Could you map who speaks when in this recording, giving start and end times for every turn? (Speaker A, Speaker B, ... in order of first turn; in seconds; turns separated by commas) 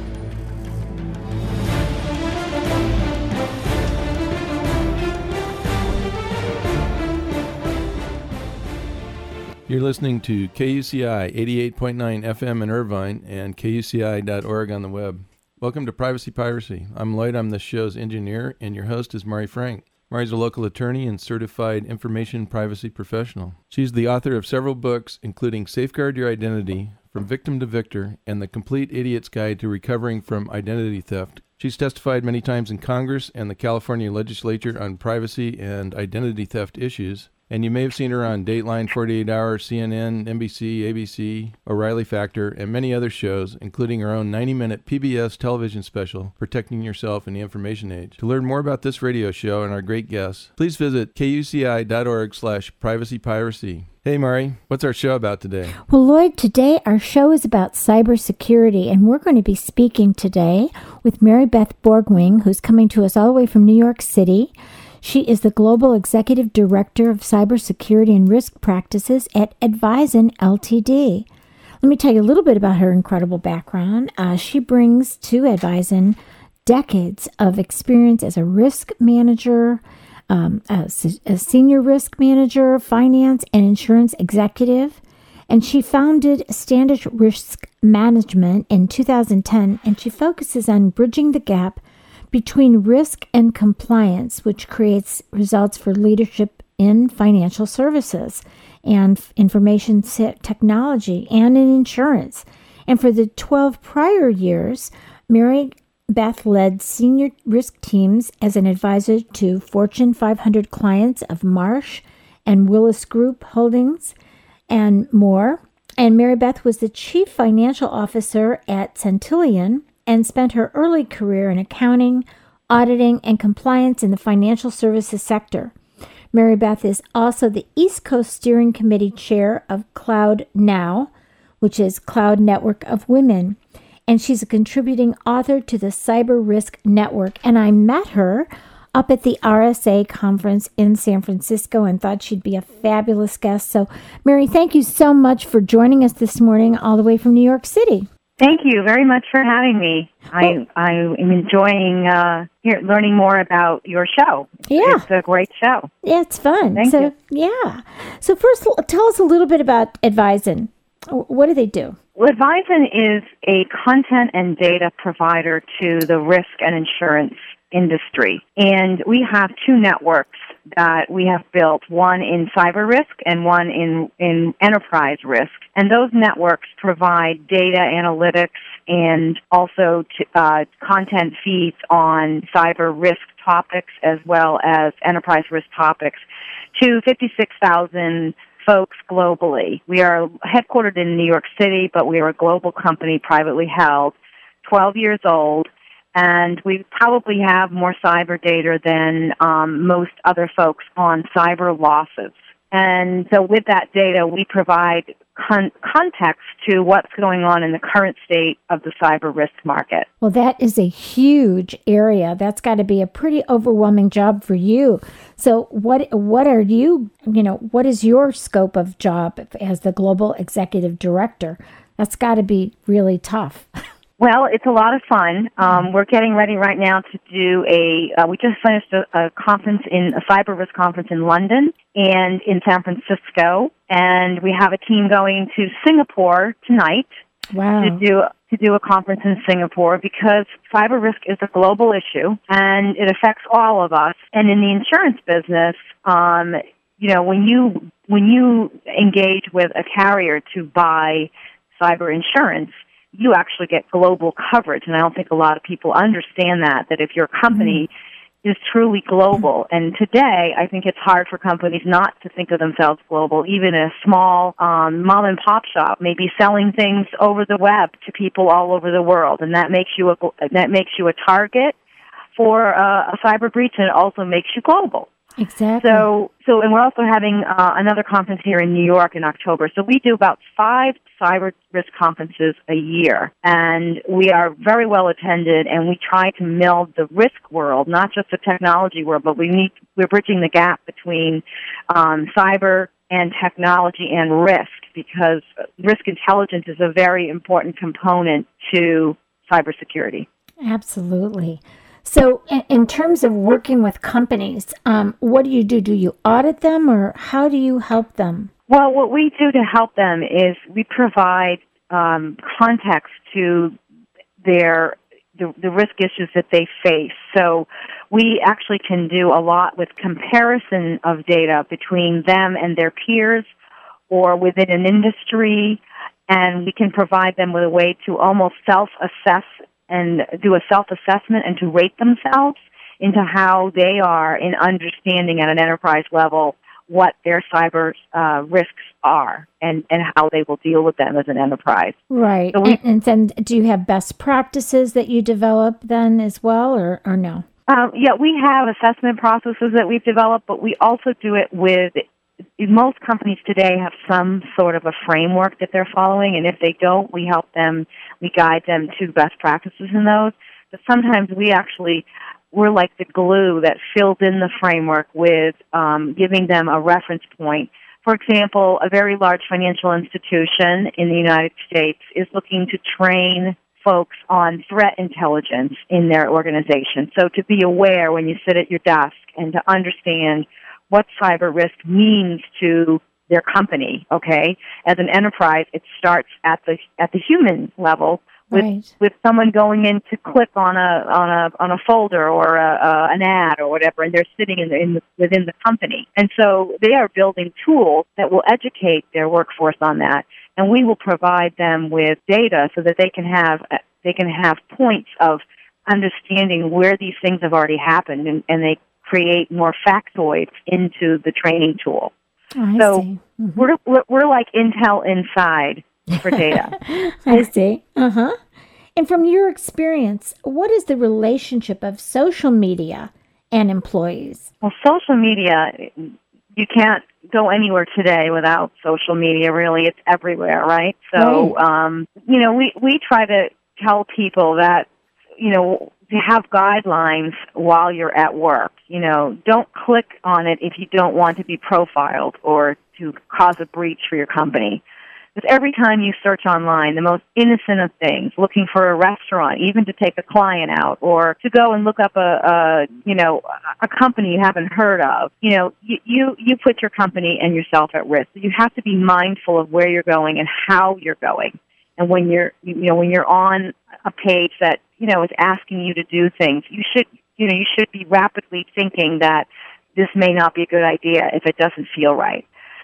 Speaker A: 9.7-55.8, Speaker B: 55.8-71.3, Speaker B: 71.8-114.1, Speaker B: 114.7-125.7, Speaker B: 126.3-131.1, Speaker B: 131.6-148.1, Speaker C: 148.4-155.9, Speaker B: 154.7-155.0, Speaker B: 156.0-162.0, Speaker C: 156.7-157.1, Speaker C: 162.2-186.2, Speaker C: 186.7-210.1, Speaker B: 210.2-223.7, Speaker C: 224.2-237.1, Speaker B: 237.5-238.0, Speaker C: 237.8-257.9, Speaker B: 257.5-257.8, Speaker C: 258.4-271.7, Speaker C: 272.3-275.1, Speaker B: 275.4-276.1, Speaker C: 275.8-300.2, Speaker B: 300.6-308.5, Speaker C: 308.7-313.8, Speaker C: 314.4-323.5, Speaker C: 324.1-342.0, Speaker B: 342.1-347.4, Speaker C: 342.5-342.8, Speaker C: 347.7-352.0, Speaker C: 352.6-412.1, Speaker B: 388.5-388.9, Speaker B: 412.6-413.6, Speaker C: 412.8-413.0, Speaker C: 413.6-416.8, Speaker B: 416.8-418.4, Speaker B: 418.9-424.5, Speaker C: 424.6-434.9, Speaker B: 431.1-431.5, Speaker C: 435.4-444.8, Speaker C: 445.3-472.4